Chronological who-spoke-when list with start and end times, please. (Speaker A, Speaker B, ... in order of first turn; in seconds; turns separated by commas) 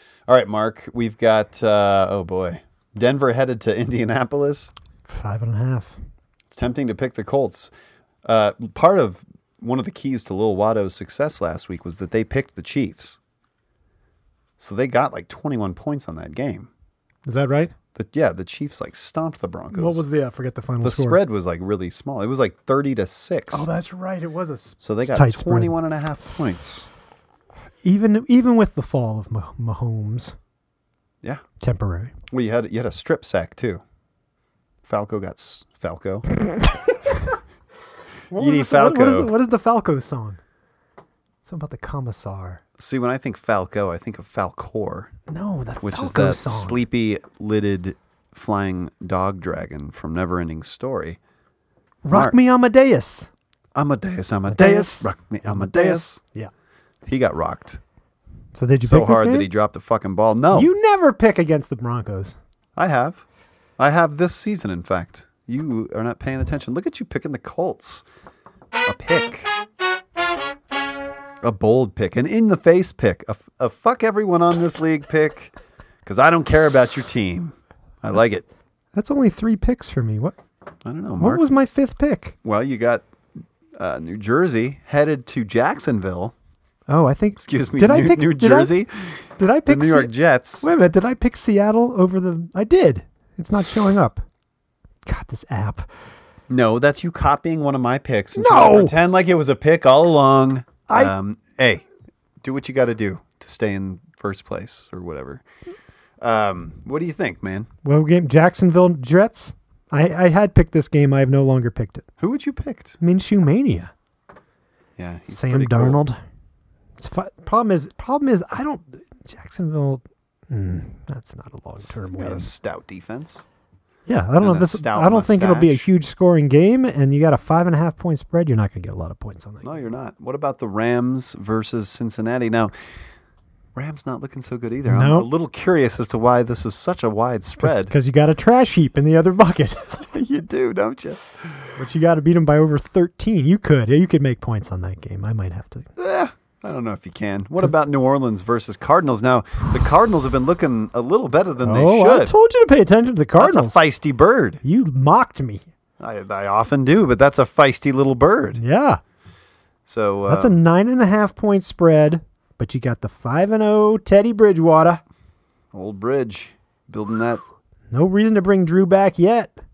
Speaker A: 0.3-4.7, Speaker B: 5.1-6.0, Speaker A: 6.5-7.7, Speaker A: 8.2-13.2, Speaker A: 14.6-16.7, Speaker B: 17.3-17.7, Speaker A: 17.9-20.1, Speaker B: 19.7-21.2, Speaker A: 20.8-23.7, Speaker B: 23.5-25.8, Speaker A: 24.8-26.9, Speaker B: 27.8-30.4, Speaker B: 31.6-32.1, Speaker A: 32.3-33.8, Speaker A: 34.9-36.3, Speaker B: 38.3-40.4, Speaker A: 38.3-39.3, Speaker B: 41.5-42.6, Speaker A: 42.8-45.1, Speaker B: 45.3-46.8, Speaker A: 45.8-51.2, Speaker B: 52.0-53.3, Speaker A: 52.1-52.4, Speaker A: 53.8-56.2, Speaker B: 54.5-56.5, Speaker A: 57.1-57.8, Speaker B: 58.5-59.5, Speaker A: 58.8-60.7, Speaker B: 60.5-62.4, Speaker A: 62.8-63.2, Speaker A: 63.8-68.1, Speaker A: 68.8-69.5, Speaker A: 71.4-75.5, Speaker A: 76.0-78.5, Speaker B: 79.0-80.4, Speaker A: 80.8-81.5, Speaker B: 81.2-82.3, Speaker A: 82.4-83.1, Speaker A: 83.8-86.3, Speaker B: 86.9-88.7, Speaker A: 87.4-90.7, Speaker B: 89.4-94.2, Speaker B: 95.1-95.9, Speaker A: 96.5-101.8, Speaker B: 98.4-99.0, Speaker B: 100.9-101.1, Speaker A: 102.4-105.4, Speaker A: 106.2-107.7, Speaker B: 107.8-112.0, Speaker A: 112.2-113.0, Speaker B: 113.0-113.9, Speaker A: 115.0-116.0, Speaker B: 115.3-116.2, Speaker B: 117.0-122.5, Speaker A: 121.8-123.5, Speaker B: 124.1-129.7, Speaker A: 124.4-125.9, Speaker A: 129.6-132.7, Speaker A: 133.8-137.9, Speaker B: 134.9-135.3, Speaker B: 137.6-140.1, Speaker A: 140.1-141.7, Speaker B: 141.8-145.9, Speaker A: 146.0-152.3, Speaker B: 151.6-153.8, Speaker A: 153.4-154.6, Speaker B: 154.6-155.7, Speaker A: 156.0-158.6, Speaker B: 158.6-159.0, Speaker A: 159.9-160.6, Speaker B: 160.3-165.0, Speaker A: 165.7-167.4, Speaker B: 167.9-169.6